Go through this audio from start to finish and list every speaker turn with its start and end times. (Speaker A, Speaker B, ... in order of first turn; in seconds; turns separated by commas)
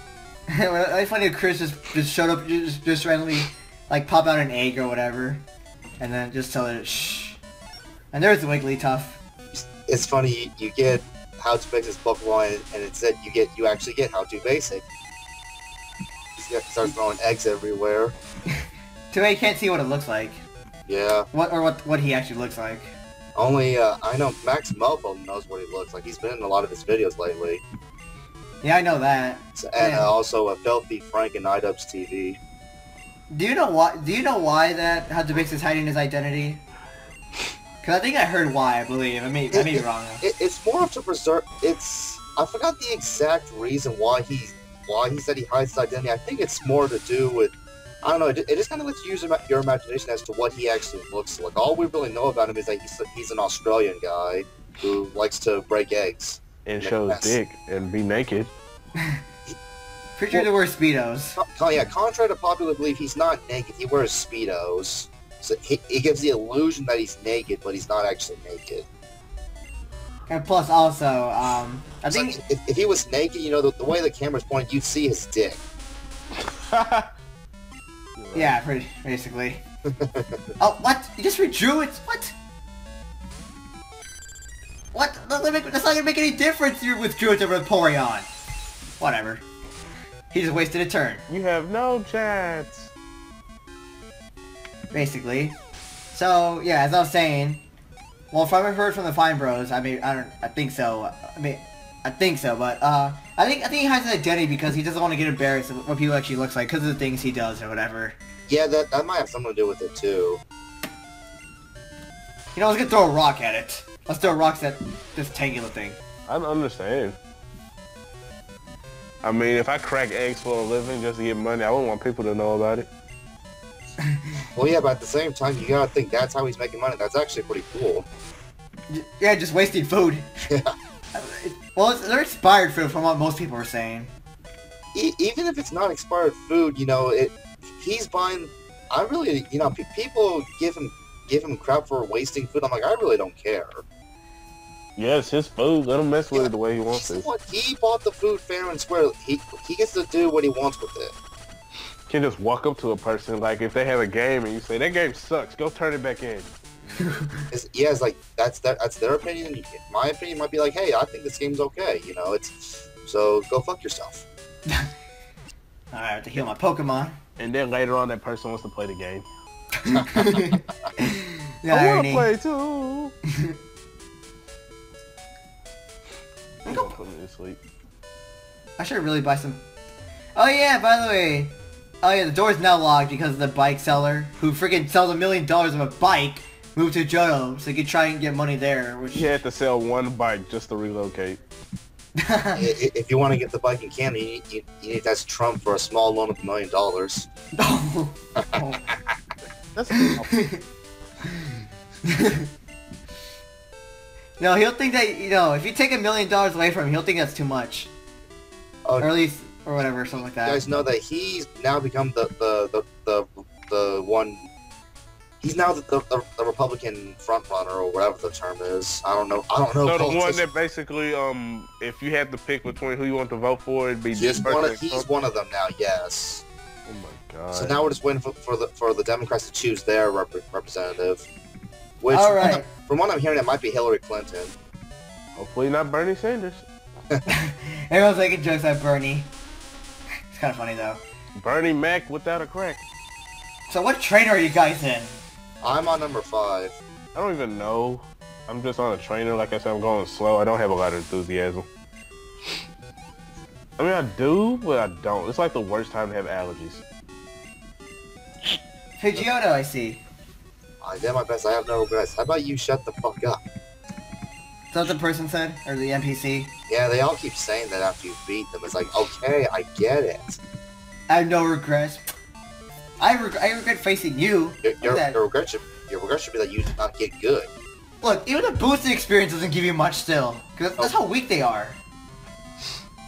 Speaker A: 0.6-5.5, Speaker A: 6.0-7.4, Speaker A: 8.1-9.2, Speaker B: 9.5-14.8, Speaker B: 16.4-18.1, Speaker A: 19.1-20.4, Speaker B: 20.9-21.3, Speaker A: 21.3-22.9, Speaker B: 23.4-27.6, Speaker A: 28.6-30.1, Speaker B: 29.6-32.4, Speaker A: 33.3-36.6, Speaker A: 37.8-40.2, Speaker B: 39.5-57.4, Speaker C: 56.6-58.5, Speaker A: 60.2-61.4, Speaker B: 61.4-68.9, Speaker A: 70.3-72.4, Speaker B: 72.1-75.6, Speaker C: 76.7-77.1, Speaker C: 78.2-78.6, Speaker A: 78.3-79.6, Speaker B: 79.9-80.4, Speaker A: 80.6-82.3, Speaker A: 84.9-88.3, Speaker A: 89.0-89.5, Speaker A: 90.3-91.2, Speaker C: 91.3-92.9, Speaker A: 94.9-95.6, Speaker A: 96.1-97.6, Speaker A: 98.3-108.2, Speaker B: 108.5-110.4, Speaker A: 112.5-116.0, Speaker C: 116.3-117.2, Speaker C: 119.2-122.9, Speaker B: 124.5-128.1, Speaker A: 128.9-130.3, Speaker A: 131.1-134.1, Speaker B: 134.9-143.8, Speaker C: 145.0-147.3, Speaker B: 146.3-151.1, Speaker C: 152.1-156.5, Speaker A: 157.0-157.4, Speaker B: 157.5-164.2, Speaker A: 165.9-167.2, Speaker C: 167.4-169.3, Speaker A: 169.8-172.3, Speaker B: 170.0-170.6, Speaker C: 171.7-173.1, Speaker C: 176.7-177.6, Speaker A: 178.8-179.6, Speaker A: 180.4-189.4, Speaker C: 189.1-191.4, Speaker A: 192.2-192.7, Speaker B: 192.6-197.3, Speaker A: 197.6-198.8, Speaker C: 199.8-200.3, Speaker A: 199.9-200.6, Speaker A: 204.4-207.9, Speaker A: 209.0-210.9, Speaker B: 210.4-214.5, Speaker B: 215.4-220.4, Speaker C: 219.8-225.1, Speaker B: 224.2-226.4, Speaker C: 226.9-227.9, Speaker B: 227.5-231.3, Speaker B: 232.0-234.6, Speaker A: 232.1-232.7, Speaker C: 235.4-236.7, Speaker A: 237.3-239.3, Speaker A: 240.3-241.0, Speaker C: 241.4-242.8, Speaker A: 243.7-245.2, Speaker B: 245.6-246.8, Speaker C: 247.2-251.7, Speaker C: 253.8-256.8, Speaker A: 259.0-260.0, Speaker B: 260.8-263.4, Speaker A: 264.7-266.5, Speaker B: 266.7-270.4, Speaker A: 271.1-272.0, Speaker A: 273.0-275.2, Speaker B: 274.6-277.5, Speaker A: 278.0-281.8